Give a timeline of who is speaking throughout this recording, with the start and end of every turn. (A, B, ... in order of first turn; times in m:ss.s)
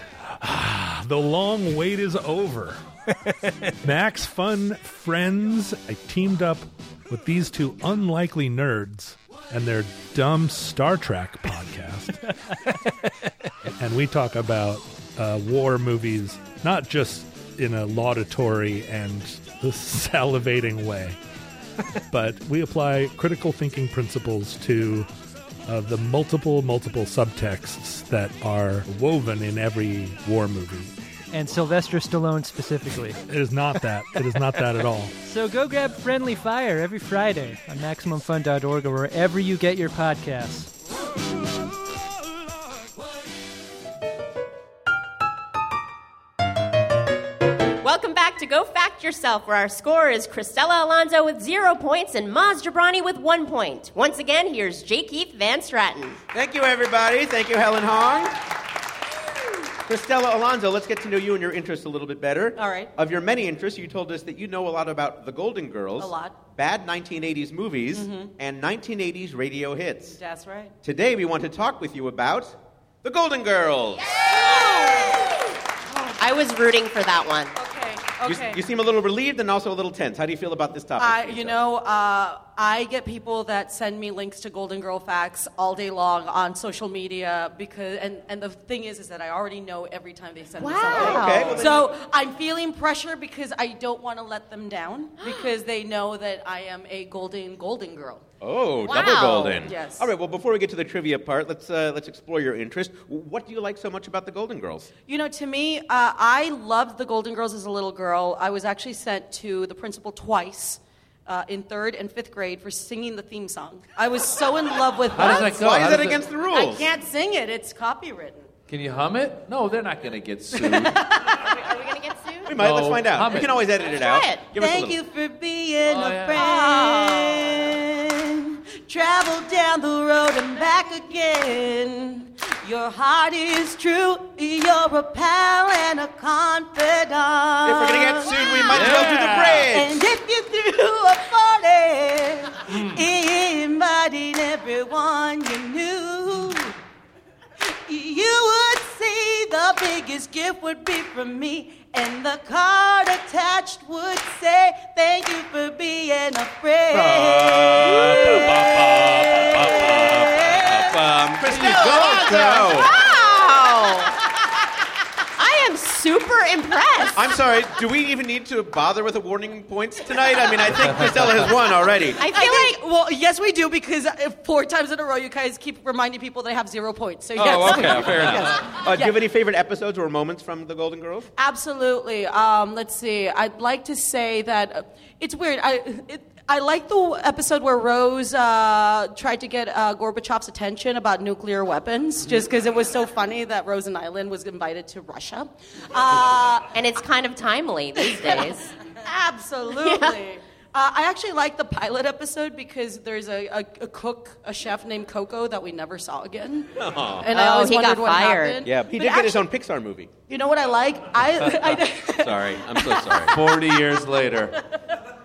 0:00.4-0:02.8 A
0:03.8-0:12.3 A
0:13.7-0:21.2 A
0:22.1-0:25.1 A
0:25.7-0:30.9 A
0:31.3-0:33.2 B
0:33.3-0:35.2 A
0:35.2-0:40.7 B
0:47.8-0:56.2 C
0:56.3-0:58.4 D
0:59.9-1:10.2 D
1:02.6-1:02.9 E
1:06.0-1:06.4 E
1:07.9-1:08.3 E
1:10.1-1:10.7 E
1:10.8-1:14.2 D
1:14.3-1:15.3 E
1:14.5-1:15.2 C
1:15.9-1:16.2 E
1:16.2-1:17.5 C
1:17.6-1:18.6 E
1:18.2-1:21.6 D
1:21.0-1:38.2 E
1:30.6-1:31.7 C
1:30.9-1:31.9 D
1:35.2-1:35.5 C
1:38.4-1:44.9 D
1:38.9-1:39.6 C
1:39.6-1:40.1 E
1:45.1-1:55.9 E
1:55.1-1:56.2 F
1:55.2-1:56.9 D
1:56.5-1:58.5 E
1:58.7-2:01.0 F
2:00.6-2:01.4 E
2:01.3-2:02.6 C
2:02.4-2:05.0 D
2:02.6-2:03.5 F
2:03.8-2:04.4 C
2:04.6-2:19.1 E
2:05.9-2:06.4 F
2:06.4-2:07.6 C
2:17.6-2:20.0 D
2:18.7-2:19.7 F
2:19.7-2:26.8 E
2:22.7-2:23.0 F
2:27.6-2:41.0 E
2:36.9-2:43.0 D
2:41.6-2:42.6 F
2:41.9-2:44.2 C
2:45.4-2:47.2 C
2:47.2-2:52.2 D
2:52.2-2:52.8 C
2:52.3-2:59.2 E
2:57.4-3:01.3 D
3:01.4-3:16.7 E
3:16.7-3:18.7 C
3:19.0-3:29.4 E
3:19.7-3:20.2 C
3:26.8-3:27.3 D
3:27.3-3:28.6 C
3:28.6-3:30.1 D
3:30.3-3:33.5 E
3:32.2-3:33.4 D
3:33.3-3:34.6 F